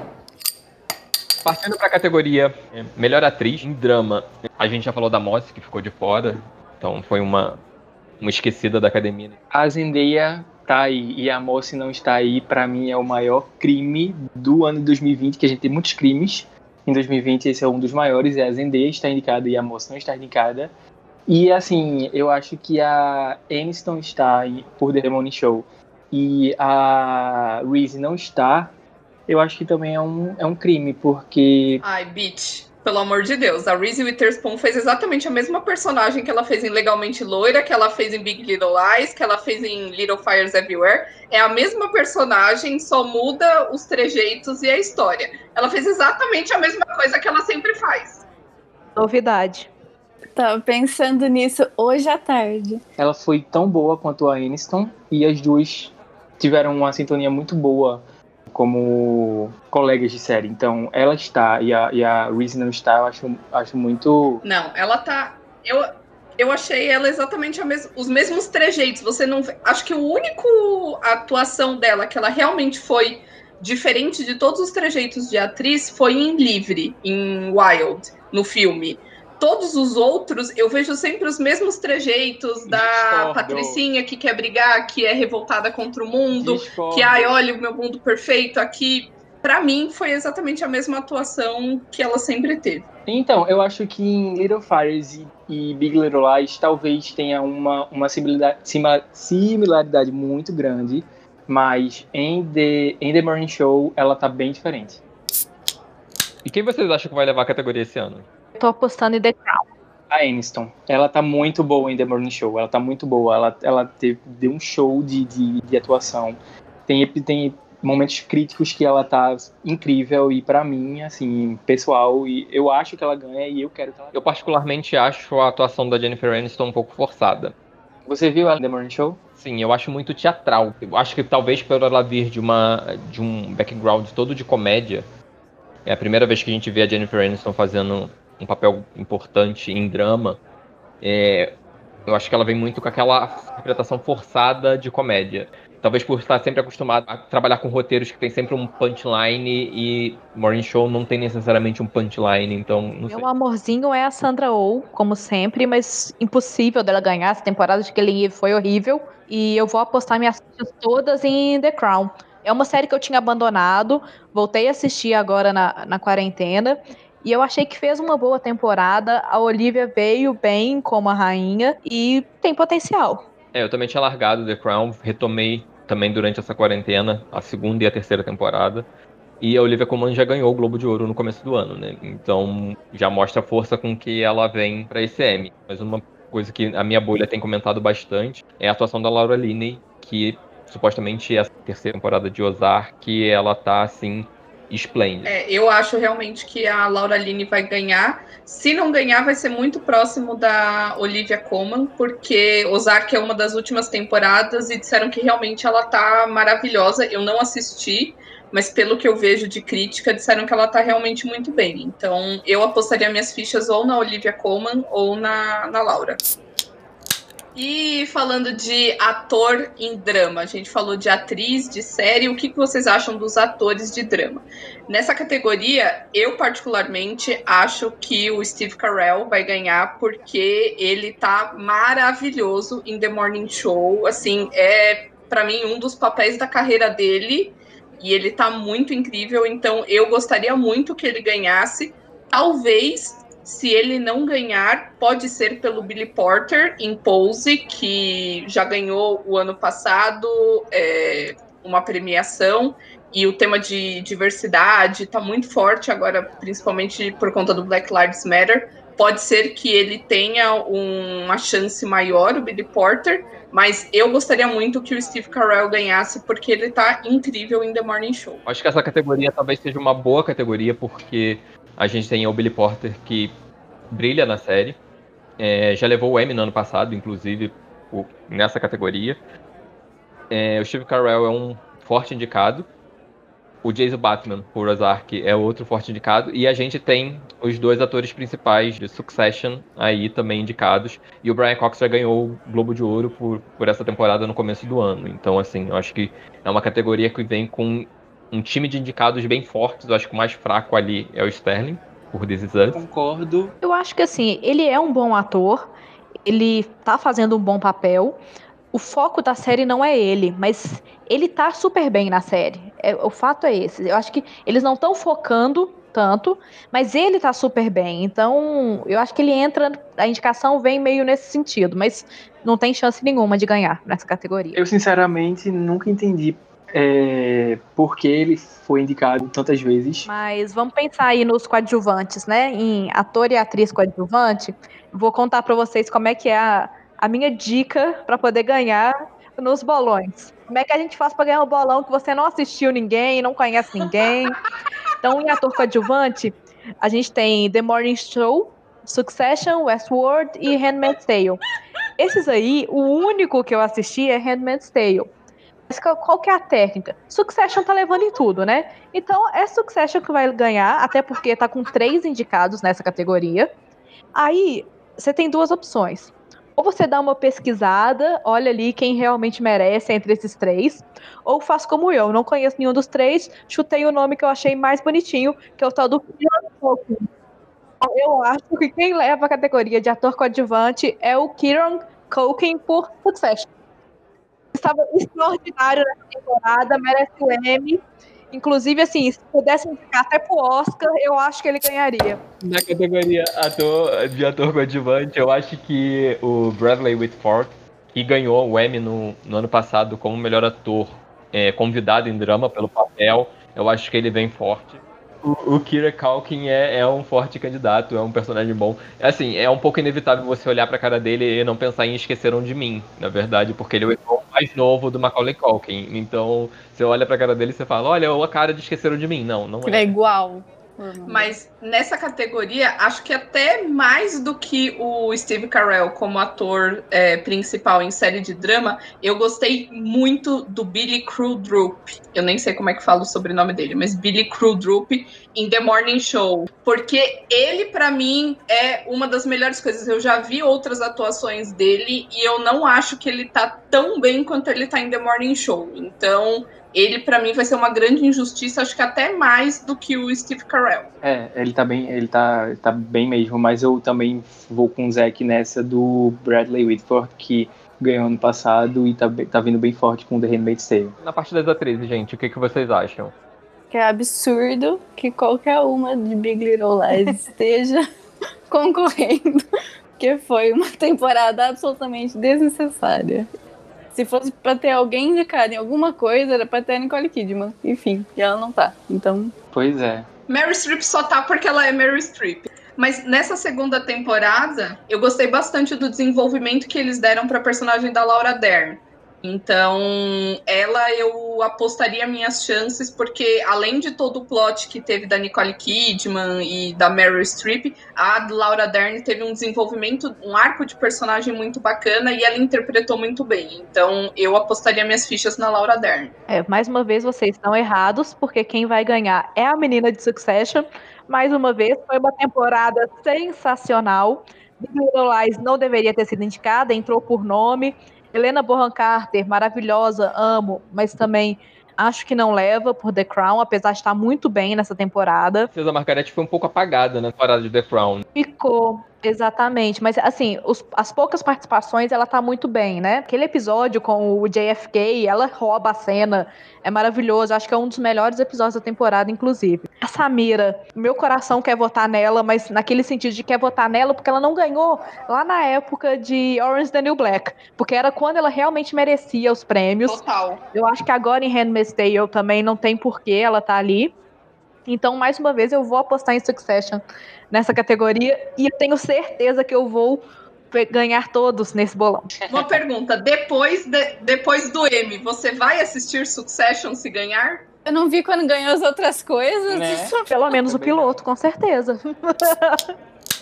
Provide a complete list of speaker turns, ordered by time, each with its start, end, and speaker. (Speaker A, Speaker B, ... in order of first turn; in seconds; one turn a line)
Speaker A: 1.4-7.6
Speaker A: 8.2-9.4
Speaker B: 9.5-20.7
Speaker B: 21.3-28.8
Speaker B: 29.3-31.8
Speaker C: 31.8-48.2
Speaker D: 49.0-49.7
Speaker E: 50.4-52.8
Speaker B: 53.0-64.4
Speaker C: 64.4-92.9
Speaker B: 82.7-83.8
Speaker B: 86.3-87.4
Speaker B: 93.1-105.0
Speaker A: 106.5-108.3
Speaker D: 108.6-109.7
Speaker B: 110.1-124.2
Speaker A: 124.1-127.5
Speaker B: 128.1-129.2
Speaker A: 129.4-135.1
Speaker A: 135.9-140.4
Speaker A: 141.0-153.2
Speaker D: 153.1-173.2
Speaker A: 173.5-178.9
Speaker A: 179.4-195.3
Speaker C: 195.2-216.2
Speaker C: 217.6-268.4
Speaker A: 268.5-273.3
Speaker A: 273.9-274.8
Speaker A: 275.4-279.2
Speaker A: 280.3-282.7
Speaker A: 283.6-302.8
Speaker B: 302.7-303.6
Speaker D: 303.6-305.7
Speaker D: 306.3-308.2
Speaker D: 308.7-324.6
Speaker B: 324.5-330.1
Speaker D: 330.1-344.4
Speaker D: 345.0-351.4
Speaker D: 352.0-355.1
Speaker D: 355.7-363.5
Speaker D: 364.1-377.1
Speaker D: 377.8-383.5
Speaker D: 384.5-387.8
Speaker D: 388.3-392.2
Speaker A: 392.4-419.9
Speaker E: 419.6-421.4
Speaker C: 421.1-450.9
Speaker B: 451.0-461.0
Speaker A: 461.0-463.1
Speaker E: 463.7-467.8
Speaker E: 468.5-469.4
Speaker E: 470.0-473.3
Speaker E: 473.9-479.3
Speaker B: 479.5-480.1
Speaker C: 480.3-506.1
Speaker D: 506.3-525.5
Speaker A: 525.5-528.1
Speaker D: 528.2-550.0
Speaker C: 549.9-550.4
Speaker D: 550.5-554.0
Speaker D: 554.7-562.1
Speaker B: 562.2-562.6
Speaker C: 562.3-567.5
Speaker E: 567.7-570.2
Speaker B: 569.5-571.0
Speaker D: 570.1-572.6